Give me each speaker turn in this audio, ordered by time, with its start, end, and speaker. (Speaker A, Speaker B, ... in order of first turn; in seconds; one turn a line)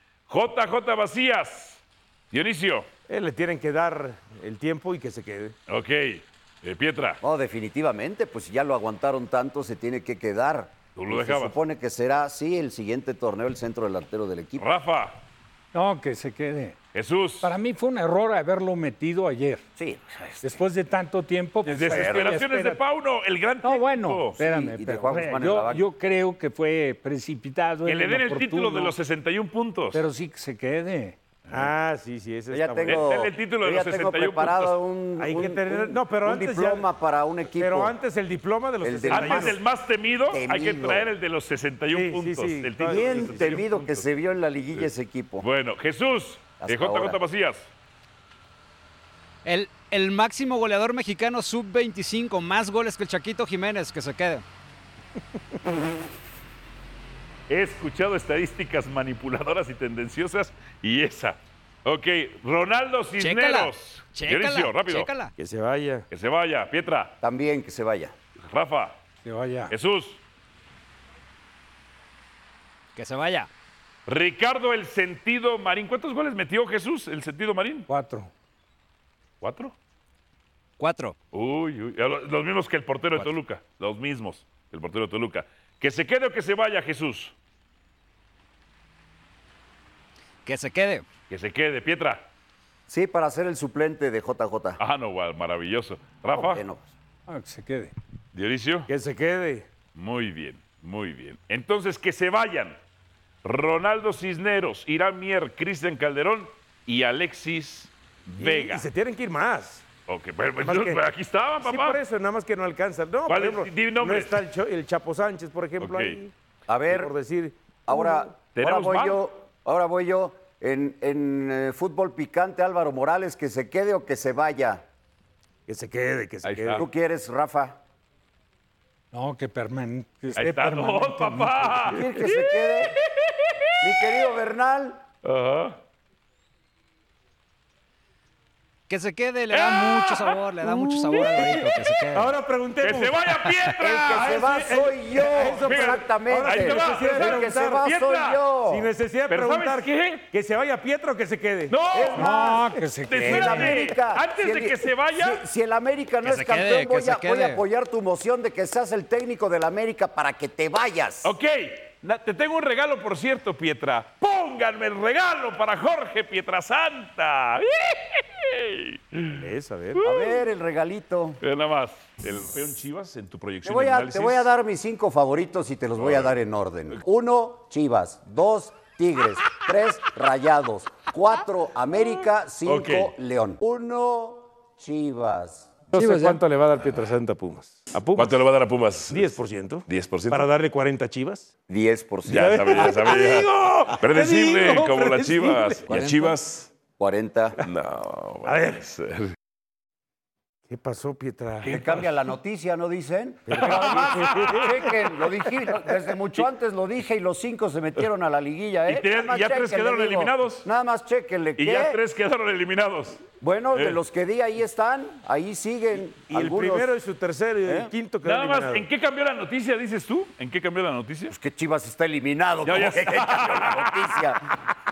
Speaker A: 0.3-2.9
Speaker B: 3.1-5.5
Speaker A: 5.7-7.2
Speaker C: 7.2-14.7
Speaker A: 10.9-11.6
Speaker A: 14.6-15.2
Speaker D: 15.7-16.8
Speaker A: 16.9-17.5
Speaker D: 17.4-19.6
Speaker C: 19.8-20.4
Speaker D: 20.4-22.8
Speaker A: 21.6-24.4
Speaker C: 21.9-22.3
Speaker D: 23.6-28.9
Speaker C: 24.4-25.8
Speaker A: 27.9-30.0
Speaker D: 29.9-31.2
Speaker B: 31.5-33.0
Speaker C: 32.5-37.9
Speaker A: 32.9-34.8
Speaker B: 35.2-36.8
Speaker B: 37.5-39.5
Speaker C: 38.8-39.6
Speaker A: 39.1-44.0
Speaker C: 40.3-41.1
Speaker B: 41.9-43.6
Speaker C: 42.8-45.5
Speaker A: 45.4-47.7
Speaker C: 46.6-47.2
Speaker E: 49.4-54.4
Speaker A: 57.5-65.1
Speaker E: 63.2-65.3
Speaker B: 65.4-66.0
Speaker A: 66.1-67.1
Speaker C: 67.2-68.1
Speaker A: 68.4-69.0
Speaker D: 69.2-69.7
Speaker A: 69.7-70.2
Speaker E: 73.0-73.5
Speaker A: 74.0-77.9
Speaker D: 77.9-78.3
Speaker A: 79.4-79.8
Speaker E: 80.8-81.2
Speaker A: 81.3-87.3
Speaker E: 90.4-91.0
Speaker A: 91.3-92.3
Speaker C: 92.9-94.8
Speaker A: 94.8-96.6
Speaker C: 96.3-96.9
Speaker D: 97.3-97.9
Speaker A: 98.3-98.9
Speaker B: 98.9-99.7
Speaker A: 99.9-102.8
Speaker A: 103.4-108.8
Speaker B: 108.4-109.8
Speaker A: 110.1-112.0
Speaker B: 110.6-111.0
Speaker B: 111.6-116.3
Speaker A: 113.3-114.4
Speaker A: 115.8-116.2
Speaker C: 116.7-117.1
Speaker B: 116.9-118.3
Speaker C: 117.9-124.8
Speaker A: 118.5-119.2
Speaker B: 125.7-126.8
Speaker A: 126.4-126.8
Speaker C: 126.8-127.8
Speaker D: 129.1-131.9
Speaker A: 130.3-134.2
Speaker C: 131.9-132.9
Speaker C: 133.8-135.0
Speaker A: 135.2-135.8
Speaker E: 138.9-142.4
Speaker A: 139.5-140.4
Speaker A: 141.0-141.7
Speaker B: 141.2-143.2
Speaker A: 142.8-148.4
Speaker C: 143.8-148.9
Speaker B: 144.3-147.9
Speaker B: 148.6-151.8
Speaker A: 149.3-150.2
Speaker A: 151.7-155.4
Speaker C: 151.9-161.3
Speaker D: 152.2-153.8
Speaker E: 156.2-157.6
Speaker A: 161.2-169.4
Speaker B: 169.3-170.0
Speaker A: 169.9-170.4
Speaker C: 170.0-171.4
Speaker A: 171.4-174.5
Speaker C: 173.6-185.8
Speaker A: 176.0-176.3
Speaker A: 182.6-183.1
Speaker B: 185.9-188.4
Speaker E: 185.9-186.3
Speaker A: 188.2-190.5
Speaker B: 189.1-191.5
Speaker C: 191.7-193.1
Speaker A: 192.3-196.7
Speaker B: 192.3-195.9
Speaker C: 195.9-196.3
Speaker C: 197.0-197.6
Speaker A: 197.6-199.3
Speaker B: 198.4-198.8
Speaker B: 200.7-201.9
Speaker C: 201.6-212.0
Speaker A: 201.7-202.0
Speaker B: 203.5-204.9
Speaker A: 203.6-204.7
Speaker A: 208.9-210.7
Speaker A: 211.6-214.0
Speaker C: 213.4-216.9
Speaker B: 216.3-218.8
Speaker C: 217.7-217.9
Speaker A: 218.2-221.3
Speaker C: 221.3-224.5
Speaker A: 222.6-224.1